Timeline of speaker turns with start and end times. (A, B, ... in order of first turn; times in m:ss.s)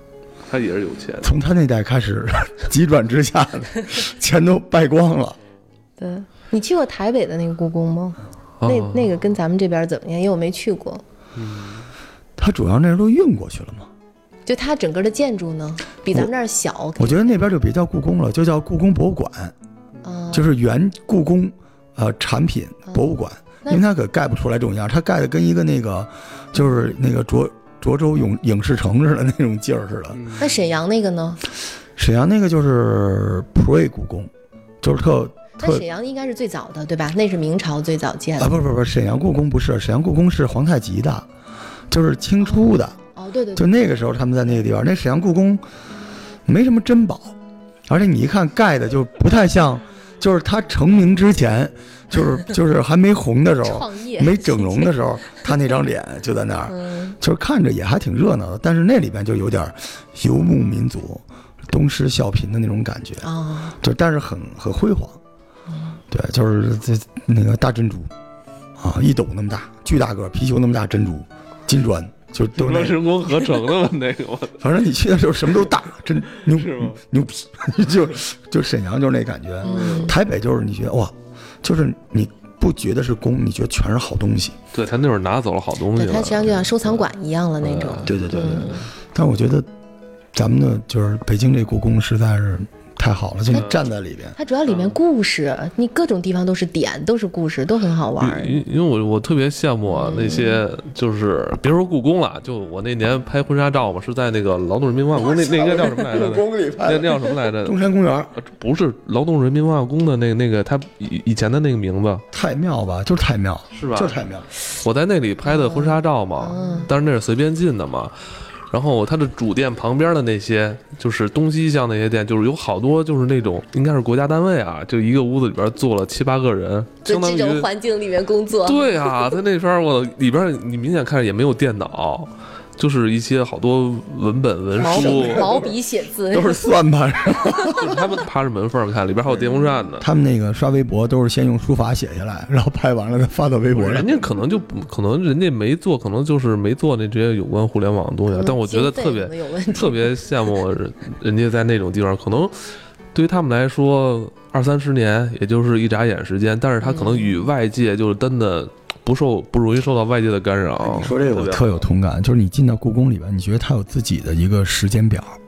0:00.5-0:01.3 A
0:01.2-0:05.4 B
0:06.0-0:11.0 C
0:08.6-0:09.1 A
0:11.4-0:11.8 A
0:12.4-0:13.9 B
0:14.5-0:17.4 C
0:17.0-0:19.5 B
0:20.0-0:20.5 C
0:20.3-0:30.3 B
0:30.2-0:30.6 A
0:30.4-0:31.4 C
0:32.0-0:34.3 B
0:34.8-0:35.8 B
0:35.6-0:38.5 C
0:38.4-0:41.3 B
0:41.9-0:43.0 B
0:42.4-0:43.8 C
0:43.6-0:45.6 B
0:46.5-0:47.4 B
0:47.9-1:03.3 B
0:53.6-0:55.0 C
0:56.7-0:57.2 C
1:03.2-1:03.8 C
1:03.8-1:05.2 B
1:05.7-1:06.0 C
1:06.1-1:08.1 B
1:08.8-1:13.0 B
1:12.6-1:14.6 A
1:14.6-1:24.6 B
1:16.3-1:17.0 A
1:19.6-1:20.2 C
1:19.7-1:20.1 A
1:24.7-1:27.0 A
1:26.0-1:28.8 C
1:27.6-1:28.6 A
1:28.1-1:29.7 B
1:30.3-1:34.4 B
1:33.5-1:33.8 A
1:34.4-1:38.6 C
1:34.7-1:35.0 A
1:38.2-1:47.8 A
1:39.9-1:40.6 C
1:45.2-1:48.3 B
1:48.4-1:52.2 A
1:52.3-1:54.5 B
1:53.7-1:54.2 A
1:54.8-1:58.1 A
1:55.5-1:56.9 C
1:58.7-2:07.7 A
2:07.0-2:09.0 C
2:08.6-2:15.6 A
2:14.8-2:16.7 C
2:14.9-2:15.7 B
2:16.3-2:18.0 B
2:17.7-2:20.1 A
2:20.0-2:24.1 B
2:23.7-2:41.8 A
2:28.3-2:30.2 C
2:36.8-2:37.5 C
2:40.8-2:45.4 B